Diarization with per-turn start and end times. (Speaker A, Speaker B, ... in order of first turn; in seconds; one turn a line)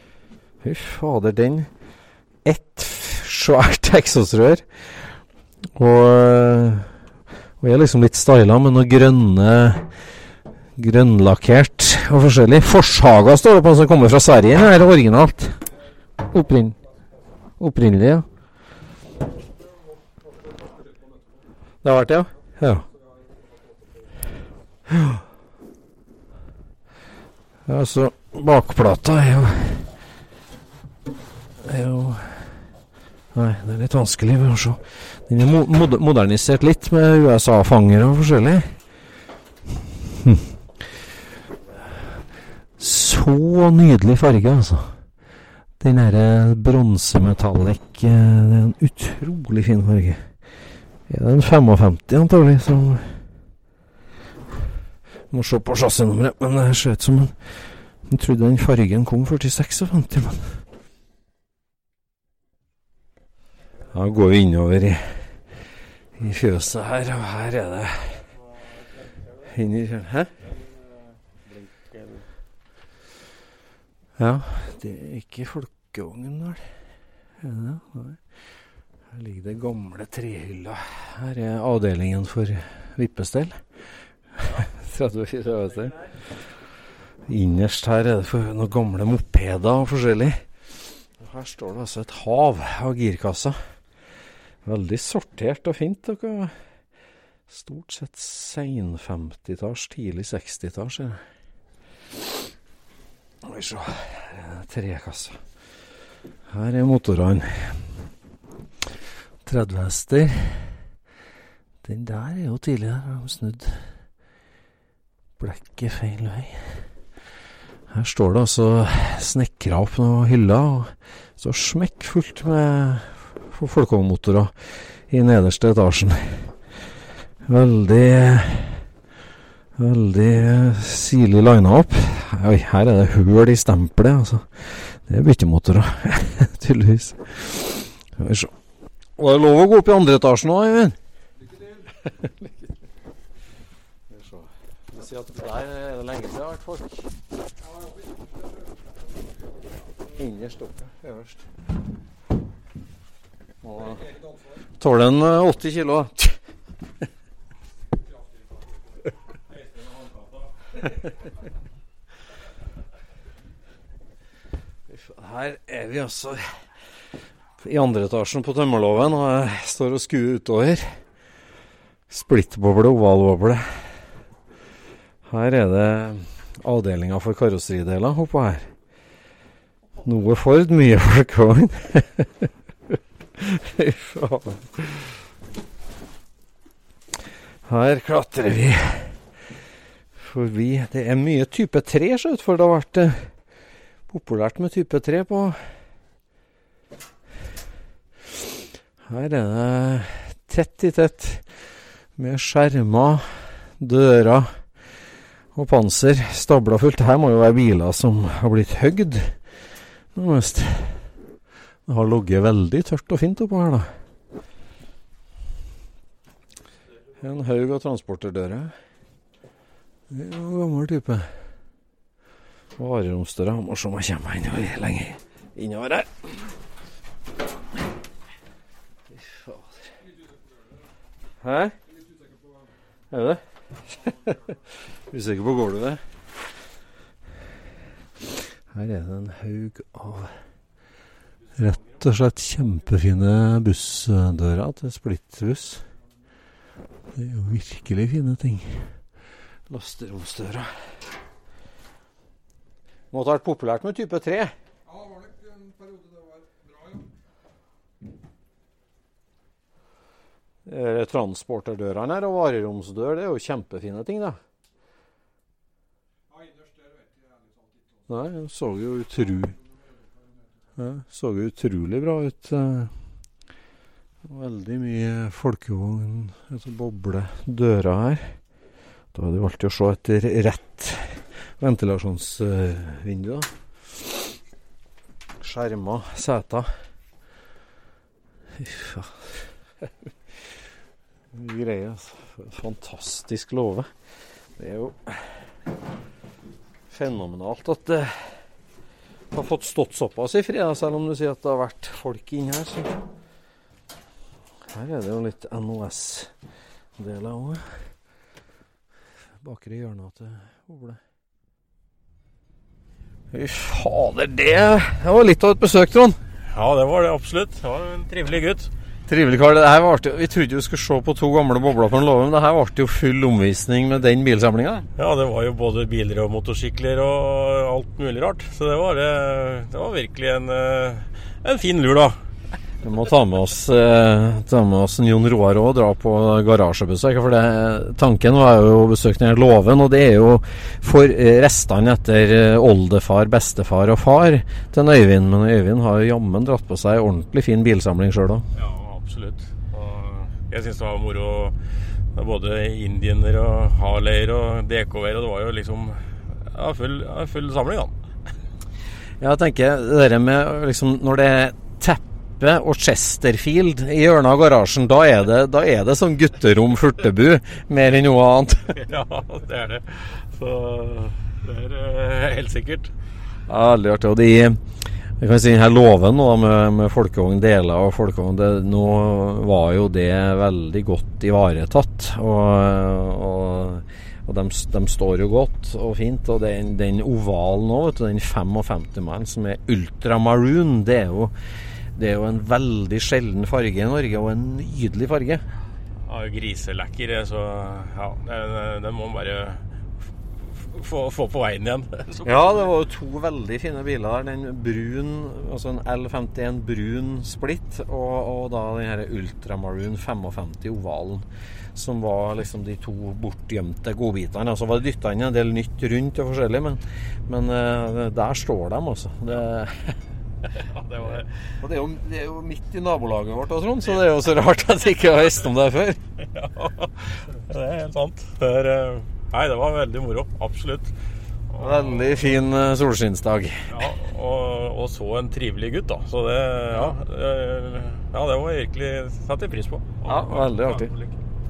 Speaker A: 0.6-1.7
Speaker A: 2.4-4.7
Speaker A: 5.7-6.9
Speaker A: 7.6-9.9
Speaker A: 10.8-15.6
Speaker A: 16.2-16.8
Speaker A: 17.6-18.3
Speaker A: 21.8-22.8
Speaker A: 24.9-25.2
Speaker A: 27.6-29.9
Speaker A: 31.6-32.6
Speaker A: 33.3-38.7
Speaker A: 40.1-40.5
Speaker A: 42.8-45.0
Speaker A: 45.8-50.3
Speaker A: 51.1-53.2
Speaker A: 55.3-60.6
Speaker A: 63.9-65.4
Speaker A: 66.2-68.3
Speaker A: 69.3-70.3
Speaker A: 74.2-76.7
Speaker A: 77.4-78.2
Speaker A: 79.1-83.6
Speaker A: 84.4-86.3
Speaker A: 87.3-90.4
Speaker A: 91.2-93.6
Speaker A: 94.6-96.5
Speaker A: 97.5-101.2
Speaker A: 103.4-105.4
Speaker A: 106.5-107.8
Speaker A: 109.4-110.8
Speaker A: 111.8-113.9
Speaker A: 115.4-116.8
Speaker A: 117.9-126.5
Speaker A: 127.4-128.8
Speaker A: 129.8-138.5
Speaker A: 139.2-141.0
Speaker A: 142.0-142.7
Speaker A: 144.1-147.1
Speaker A: 150.1-151.3
Speaker A: 153.6-154.0
Speaker A: 154.8-156.4
Speaker A: 164.9-166.5
Speaker A: 167.6-170.9
Speaker A: 172.1-173.8
Speaker A: 175.2-178.7
Speaker A: 180.0-185.2
Speaker A: 187.6-189.2
Speaker A: 190.2-193.3
Speaker A: 194.1-195.7
Speaker A: 199.1-201.4
Speaker A: 202.2-204.6
Speaker A: 205.5-209.4
Speaker A: 210.1-211.0
Speaker A: 211.9-213.9
Speaker A: 217.2-218.8
Speaker A: 220.1-221.3
Speaker A: 222.8-226.5
Speaker A: 229.1-229.7
Speaker A: 231.4-231.8
Speaker A: 233.1-234.6
Speaker A: 235.1-236.0
Speaker A: 238.7-240.3
Speaker A: 241.6-245.9
Speaker A: 247.1-249.0
Speaker A: 249.7-250.7
Speaker A: 253.1-254.5
Speaker B: 254.9-257.0
Speaker A: 260.6-264.4
Speaker B: 266.3-267.6
Speaker A: 268.1-269.6
Speaker A: 270.8-272.9
Speaker A: 274.2-278.4
Speaker A: 279.1-284.3
Speaker A: 285.4-286.7
Speaker A: 288.5-289.5
Speaker A: 291.3-293.9
Speaker A: 294.6-295.5
Speaker A: 296.9-298.4
Speaker A: 299.3-302.9
Speaker A: 304.7-306.3
Speaker A: 307.0-307.8
Speaker A: 309.4-311.0
Speaker A: 313.3-316.2
Speaker C: 316.5-318.7
Speaker A: 319.1-324.9
Speaker C: 324.9-332.2
Speaker A: 332.8-348.5
Speaker C: 348.5-357.9
Speaker A: 359.2-368.8
Speaker C: 368.8-372.9
Speaker A: 373.5-391.3
Speaker A: 391.9-395.4
Speaker C: 396.1-399.6
Speaker C: 400.6-402.7
Speaker A: 402.2-420.0
Speaker C: 420.7-421.3
Speaker A: 421.6-426.0
Speaker C: 426.3-430.9
Speaker C: 431.5-432.4
Speaker A: 431.6-433.9
Speaker C: 433.7-441.1
Speaker A: 440.0-440.9